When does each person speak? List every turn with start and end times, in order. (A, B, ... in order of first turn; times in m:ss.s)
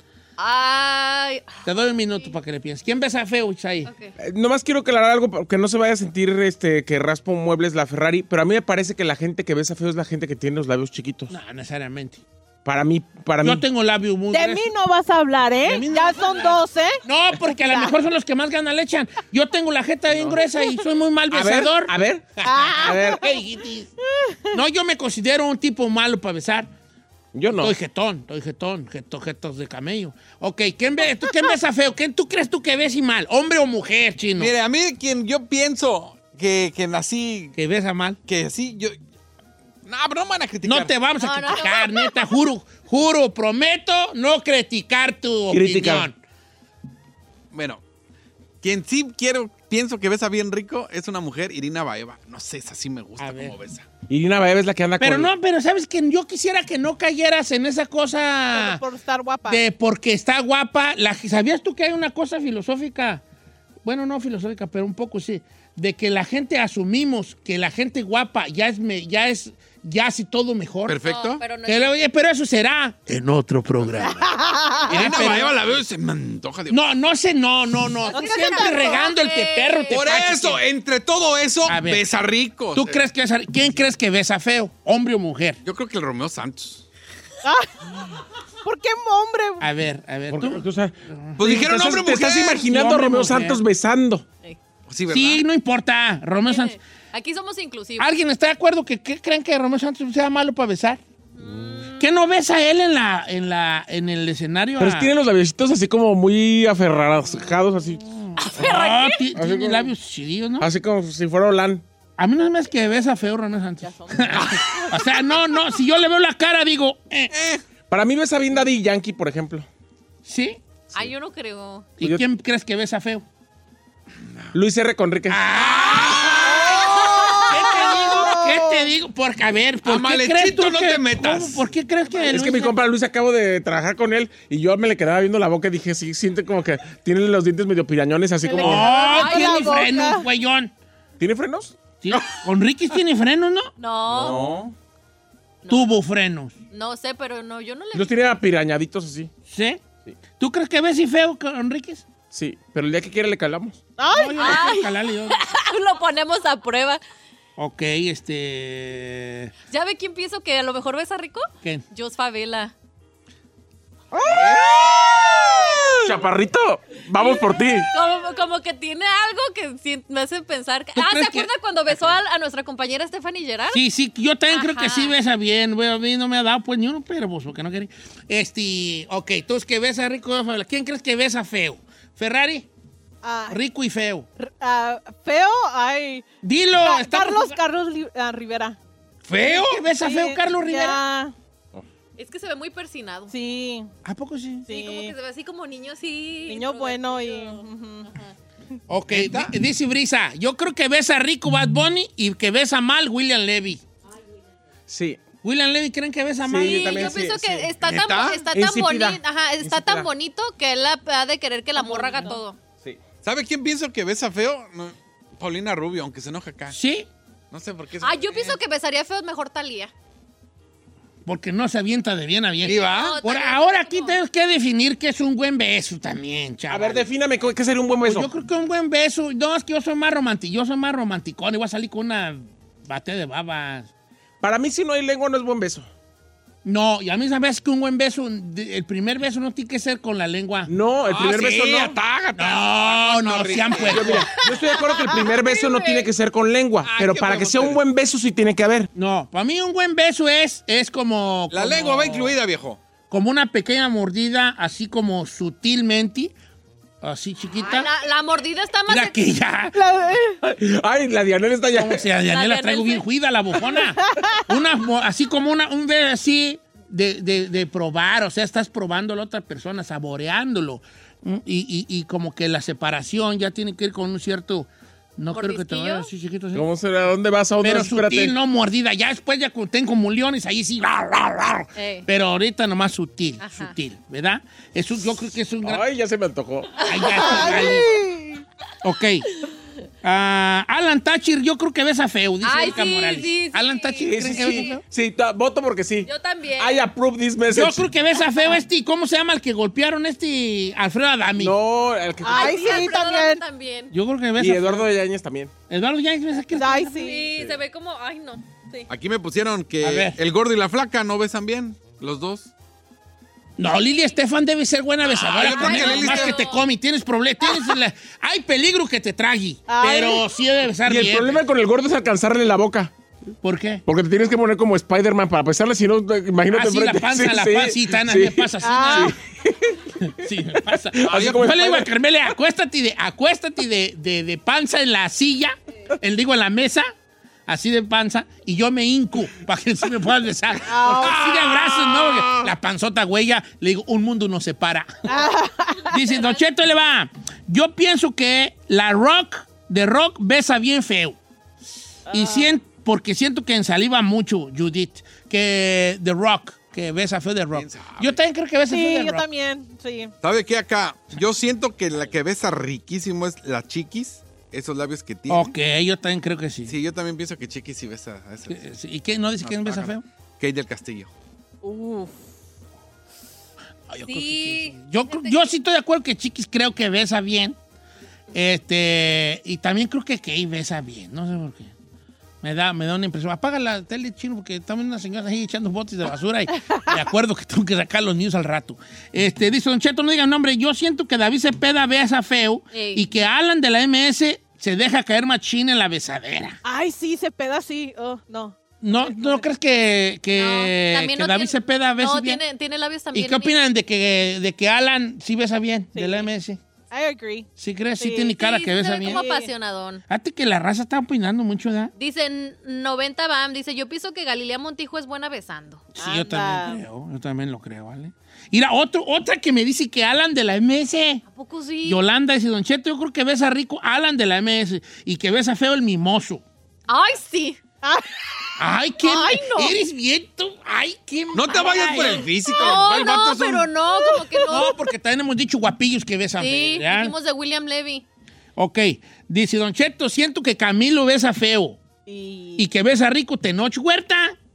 0:00.4-0:02.3 A
0:01.6-0:03.9 B
0:03.9-0:04.1 A
0:04.2-0:11.4 C
0:11.3-0:12.2 B
0:12.6-0:13.6 C
0:13.4-0:14.7 B
0:14.3-0:18.0 D
0:15.6-0:23.9 B
0:20.5-0:20.9 D
0:21.3-0:22.2 C
0:22.4-0:23.4 D
0:22.8-0:23.2 C
0:24.0-0:24.6 D
0:24.5-0:26.7 B
0:27.3-0:27.7 C
0:27.6-0:34.5 B
0:34.4-0:37.6 E
0:37.6-0:38.2 B
0:38.3-0:39.0 E
0:39.9-0:40.9 E
0:40.6-0:46.2 B
0:41.2-0:42.3 A
0:45.5-0:46.1 C
0:47.5-0:47.8 E
0:48.6-0:53.9 E
0:53.2-0:53.6 B
0:54.1-0:55.3 C
0:55.0-0:58.8 B
0:58.5-0:59.6 D
0:59.5-1:03.2 B
1:03.8-1:11.0 B
1:10.9-1:11.4 E
1:11.0-1:11.9 A
1:11.6-1:14.3 B
1:14.1-1:15.3 D
1:14.9-1:15.6 B
1:14.9-1:16.8 E
1:16.7-1:20.6 B
1:18.1-1:19.1 D
1:18.4-1:19.9 A
1:19.9-1:23.0 E
1:21.7-1:22.0 B
1:22.7-1:25.6 B
1:25.6-1:26.8 E
1:27.4-1:27.9 D
1:28.6-1:29.7 D
1:29.6-1:31.7 B
1:30.3-1:34.2 C
1:31.4-1:32.9 E
1:32.6-1:33.6 B
1:34.9-1:35.4 E
1:35.1-1:36.8 B
1:36.4-1:38.1 A
1:38.0-1:41.0 B
1:41.4-1:42.1 A
1:41.4-1:41.8 C
1:42.0-1:45.1 B
1:44.8-1:48.0 C
1:48.4-1:49.2 A
1:48.5-1:50.7 B
1:49.4-1:49.9 C
1:50.6-1:51.8 C
1:52.2-1:57.3 B
1:53.8-1:54.6 D
1:57.3-1:57.6 E
1:57.9-1:59.7 C
2:00.3-2:00.6 B
2:00.9-2:01.9 A
2:02.0-2:03.2 B
2:04.5-2:05.5 C
2:05.3-2:06.9 B
2:05.5-2:07.4 E
2:06.5-2:08.9 D
2:07.4-2:12.8 B
2:09.8-2:11.7 E
2:12.2-2:19.0 C
2:18.4-2:20.3 D
2:18.5-2:20.7 B
2:19.0-2:19.8 A
2:21.2-2:21.8 C
2:22.0-2:23.7 B
2:23.8-2:24.5 A
2:24.1-2:24.7 C
2:24.2-2:24.5 E
2:25.6-2:26.0 A
2:25.7-2:26.5 B
2:26.7-2:28.2 A
2:27.9-2:29.3 C
2:29.5-2:29.8 B
2:30.4-2:32.0 B
2:32.3-2:33.8 C
2:34.0-2:34.6 D
2:34.1-2:35.4 B
2:34.4-2:37.0 A
2:37.6-2:39.5 B
2:39.7-2:42.7 A
2:44.2-2:44.4 D
2:44.3-2:45.7 E
2:46.0-2:47.9 C
2:47.2-2:53.8 A
2:51.0-2:51.5 B
2:53.7-3:02.7 B
2:54.5-2:55.1 A
3:03.2-3:03.6 D
3:03.5-3:04.3 B
3:04.4-3:06.3 D
3:06.4-3:07.6 B
3:06.8-3:08.8 D
3:09.3-3:09.8 E
3:09.5-3:11.0 B
3:10.0-3:11.3 D
3:12.2-3:13.3 A
3:13.3-3:13.9 D
3:14.0-3:14.7 B
3:14.7-3:15.2 D
3:14.7-3:18.3 A
3:16.5-3:18.1 D
3:18.9-3:23.8 B
3:19.1-3:19.5 E
3:24.9-3:25.2 C
3:25.4-3:27.2 B
3:26.4-3:27.6 C
3:26.6-3:32.6 A
3:27.8-3:28.5 E
3:28.5-3:30.1 C
3:31.8-3:32.4 B
3:33.2-3:36.8 E
3:36.7-3:37.1 B
3:37.5-3:38.6 E
3:38.0-3:39.9 A
3:41.3-3:47.1 B
3:42.6-3:44.2 A
3:42.7-3:43.1 E
3:46.7-3:48.3 C
3:48.0-3:53.9 B
3:54.4-3:55.9 C
3:56.6-4:00.7 B
4:00.7-4:02.0 C
4:01.0-4:04.3 E
4:02.4-4:04.3 B
4:03.9-4:08.9 C
4:06.8-4:07.8 E
4:09.0-4:12.4 B
4:11.5-4:12.8 E
4:13.1-4:16.3 B
4:17.0-4:17.9 B
4:17.6-4:19.2 A
4:18.9-4:19.8 B
4:19.7-4:20.4 D
4:20.4-4:22.1 C
4:21.8-4:36.7 B
4:22.3-4:23.0 A
4:23.8-4:24.4 D
4:35.3-4:36.1 A
4:36.5-4:38.3 C
4:37.6-4:45.8 B
4:41.8-4:42.1 A
4:43.4-4:43.7 A
4:45.6-4:46.8 C
4:46.8-4:47.9 B
4:47.1-4:48.4 D
4:48.8-4:49.3 B
4:50.0-4:54.8 B
4:52.4-4:54.7 A
4:54.0-4:57.9 C
4:56.1-4:56.9 A
4:57.5-5:01.6 B
5:01.4-5:02.6 C
5:02.2-5:03.4 D
5:02.2-5:03.9 A
5:03.9-5:04.9 B
5:04.4-5:05.5 C
5:05.7-5:07.1 B
5:06.5-5:07.4 D
5:07.0-5:08.9 A
5:08.9-5:12.5 E
5:09.8-5:10.2 B
5:13.6-5:21.4 B
5:15.0-5:16.5 E
5:15.4-5:16.6 A
5:19.7-5:20.3 D
5:20.8-5:22.9 C
5:23.4-5:23.8 B
5:23.9-5:29.8 C
5:26.5-5:29.2 B
5:28.6-5:29.1 D
5:30.0-5:36.9 B
5:31.0-5:31.9 C
5:31.1-5:31.4 E
5:37.5-5:45.1 B
5:40.7-5:41.3 D
5:41.0-5:42.5 E
5:45.1-5:46.0 D
5:45.9-5:51.2 B
5:52.1-5:52.6 D
5:52.1-5:59.3 B
5:57.5-5:58.2 E
5:58.7-6:00.1 D
6:00.2-6:05.5 E
6:05.3-6:06.7 B
6:06.7-6:08.7 E
6:08.5-6:10.0 B
6:09.4-6:11.1 E
6:11.6-6:12.2 D
6:13.9-6:17.6 B
6:14.1-6:15.5 A
6:18.3-6:21.7 B
6:22.4-6:36.6 B
6:32.7-6:33.0 A
6:36.6-6:39.5 D
6:38.8-6:42.4 B
6:40.4-6:43.6 A
6:43.1-6:46.6 B
6:45.9-6:46.3 D
6:46.9-6:47.5 D
6:47.6-6:49.2 B
6:48.0-6:48.3 D
6:48.3-6:50.0 A
6:49.0-6:49.5 D
6:50.1-6:51.9 B
6:52.0-6:55.9 A
6:56.0-7:01.2 B
6:56.0-6:56.8 D
7:01.3-7:02.0 A
7:01.8-7:06.4 B
7:06.9-7:07.6 A
7:07.8-7:08.1 D
7:08.6-7:12.3 B
7:09.0-7:09.7 A
7:11.3-7:13.7 E
7:12.5-7:14.8 A
7:14.0-7:14.7 D
7:14.5-7:17.1 B
7:16.4-7:18.0 A
7:18.6-7:21.8 B
7:22.1-7:22.7 D
7:22.6-7:24.4 B